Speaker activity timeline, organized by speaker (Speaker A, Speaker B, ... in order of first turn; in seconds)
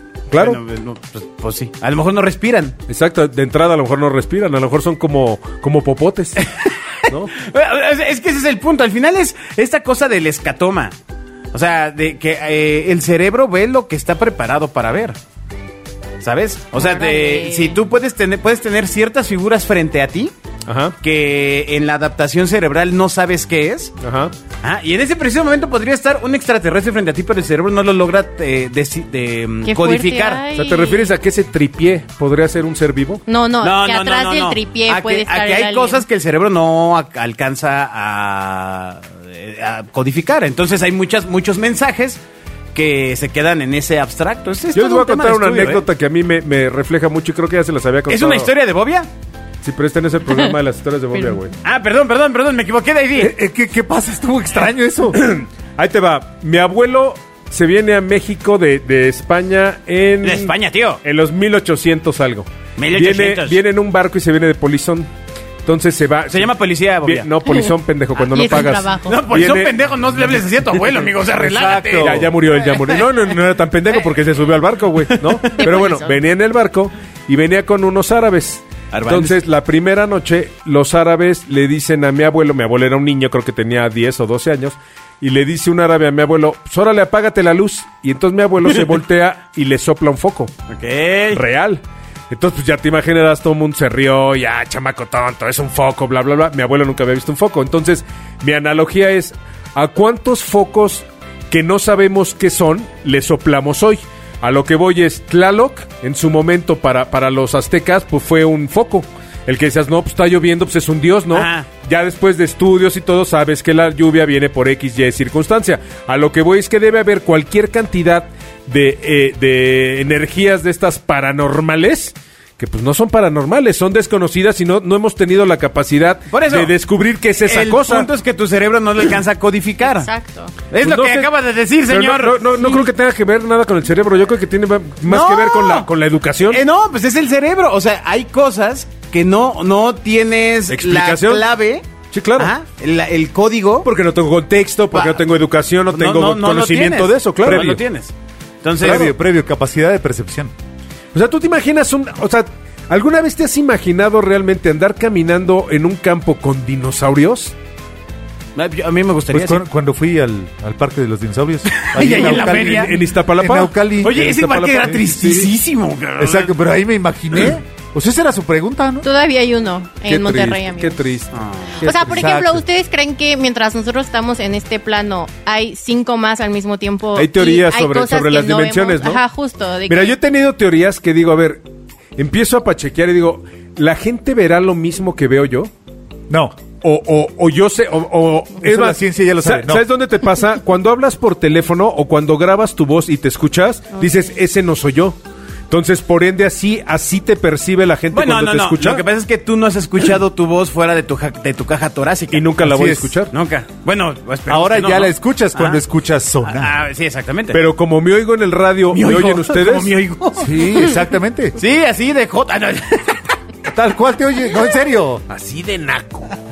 Speaker A: 0.3-0.6, 2.9-6.5, 20.7-20.9, 24.0-24.3, 30.5-33.2, 44.7-48.5, 49.6-51.5, 55.1-65.1, 65.6-69.8, 72.0-90.5, 91.3-128.1, 130.8-131.3, 131.9-136.6, 140.7-141.4, 142.1-142.5, 143.8-147.8, 148.8-149.1, 151.1-157.5, 162.0-165.4, 170.1-172.5, 177.1-179.2, 179.9-181.6, 182.2-185.7, 186.8-195.2, 195.7-199.0, 202.3-203.3, 207.5-209.9, 215.3-216.3
Speaker B: 0.3-2.8, 6.4-10.9, 11.5-15.2, 16.2-20.3, 21.0-23.9, 24.6-30.4, 33.6-42.2, 42.7-45.8, 48.1-49.1, 51.6-53.3, 60.2-61.0, 62.8-63.6, 66.3-67.3, 69.0-73.0, 75.1-75.7, 78.9-79.4, 90.7-91.4, 111.3-111.7, 126.3-126.7, 127.4-130.1, 130.7-132.8, 135.0-135.9, 136.5-143.9, 144.9-145.2, 145.9-149.1, 158.6-159.6, 161.7-162.9, 164.0-166.6, 171.3-171.8, 198.1-202.6, 203.3-205.8, 206.4-207.6, 208.9-210.9, 211.6-213.2
Speaker C: 16.8-17.8, 29.6-31.1, 33.3-36.0, 68.2-69.2, 75.5-76.2, 129.8-130.5, 169.0-171.0, 171.8-180.2
Speaker D: 53.1-55.2, 71.3-72.3, 147.4-147.8, 148.8-150.5, 159.3-164.3, 164.9-165.5, 166.2-169.0, 172.1-172.6, 186.3-186.6, 188.6-189.8, 202.6-203.2, 204.5-206.7, 210.4-211.6, 213.7-215.2